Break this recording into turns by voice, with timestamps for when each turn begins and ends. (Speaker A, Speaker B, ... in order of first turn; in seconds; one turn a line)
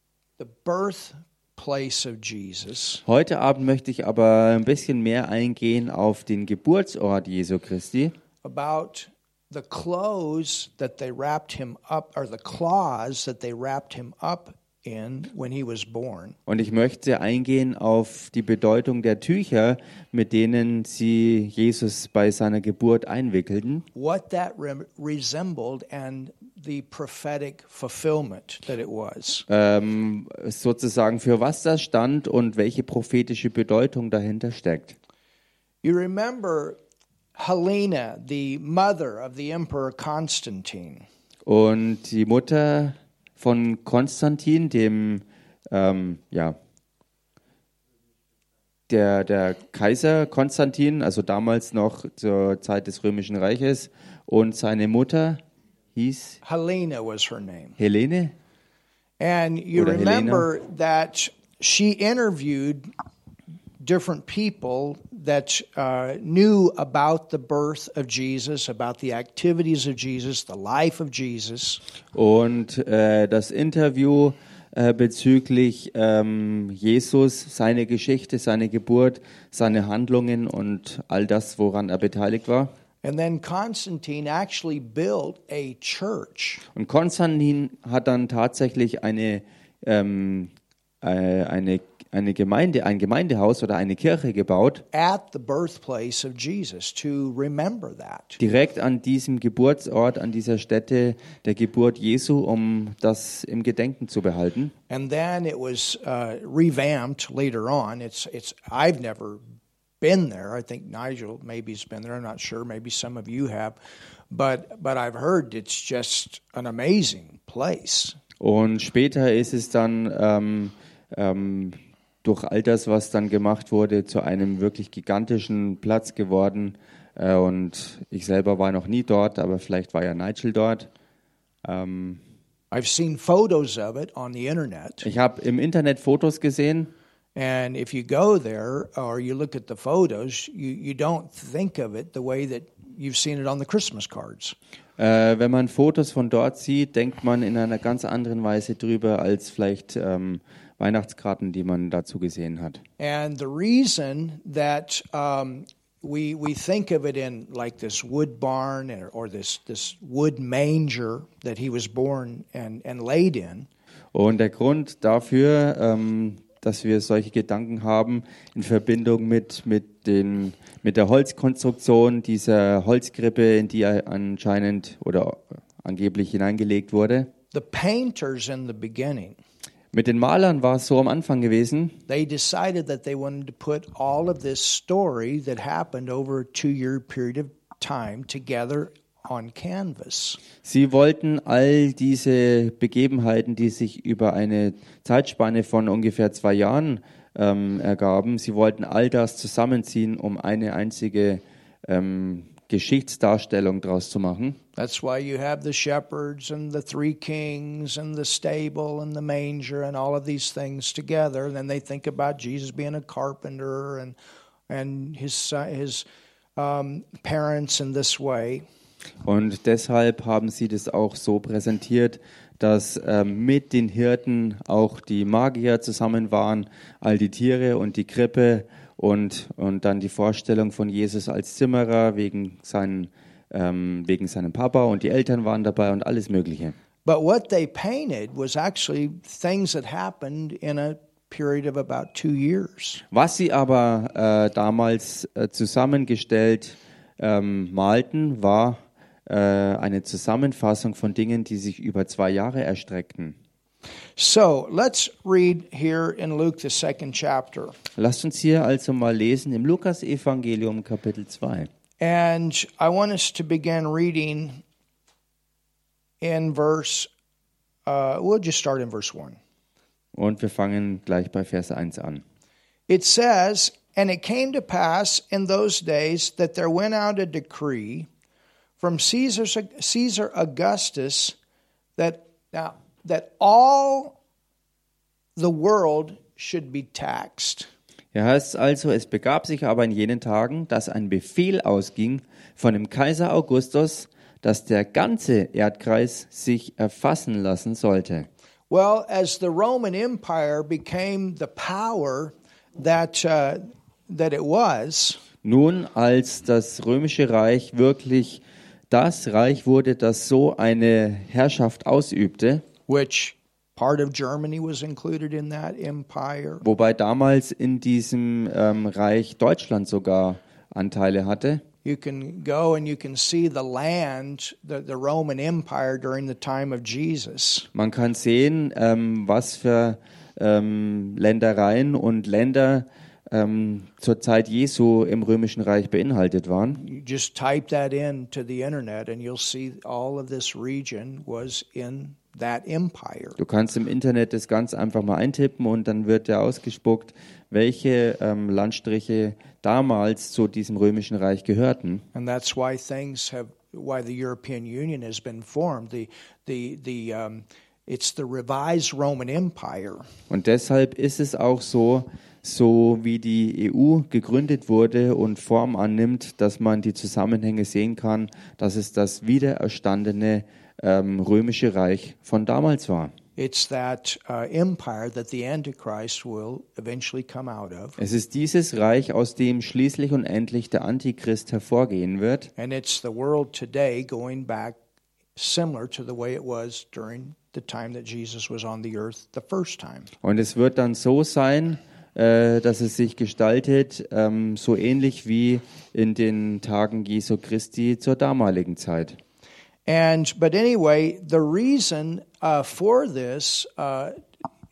Speaker A: 0.4-3.0
Speaker B: 3.1-8.1
Speaker A: 8.4-16.4
Speaker B: 16.5-23.9
Speaker A: 23.9-29.5
Speaker B: 29.5-35.0
Speaker A: 35.8-36.8
Speaker A: 37.4-41.0
Speaker B: 41.5-46.5
Speaker B: 48.9-55.4
Speaker B: 56.0-56.4
Speaker A: 56.4-57.8
Speaker B: 57.8-58.3
Speaker A: 59.2-62.9
Speaker B: 59.8-60.5
Speaker A: 63.8-71.8
Speaker B: 72.1-82.7
Speaker A: 83.0-86.6
Speaker B: 86.8-94.8
Speaker A: 94.9-98.4
Speaker B: 98.4-104.7
Speaker A: 104.9-109.4
Speaker A: 110.0-113.8
Speaker A: 114.3-118.2
Speaker B: 118.4-130.9
Speaker B: 131.6-132.2
Speaker A: 132.7-135.1
Speaker B: 135.0-136.9
Speaker A: 137.4-144.6
Speaker B: 145.0-152.8
Speaker A: 153.0-163.7
Speaker B: 164.1-177.3
Speaker A: 177.5-179.4
Speaker B: 179.9-182.0
Speaker A: 182.1-190.4
Speaker B: 190.6-204.6
Speaker A: 204.8-214.2
Speaker A: 214.7-216.1
Speaker A: 216.6-218.7
Speaker B: 219.2-236.8
Speaker A: 237.1-243.0
Speaker B: 243.1-253.4
Speaker A: 254.2-257.7
Speaker B: 258.0-261.7
Speaker A: 262.0-264.6
Speaker A: 266.2-267.1
Speaker A: 267.9-269.4
Speaker B: 270.1-272.2
Speaker A: 272.9-278.1
Speaker A: 278.8-281.4
Speaker A: 282.0-284.2
Speaker A: 285.4-287.7
Speaker B: 288.1-298.3
Speaker A: 298.7-305.2
Speaker B: 305.4-312.6
Speaker A: 312.9-316.6
Speaker B: 316.6-321.6
Speaker A: 321.8-327.7
Speaker B: 327.7-336.8
Speaker A: 336.8-343.4
Speaker B: 343.4-352.1
Speaker A: 352.1-360.0
Speaker B: 360.3-373.1
Speaker A: 373.4-378.0
Speaker B: 378.0-382.5
Speaker A: 382.6-384.8
Speaker A: 385.4-390.1
Speaker B: 390.2-399.2
Speaker A: 399.9-404.2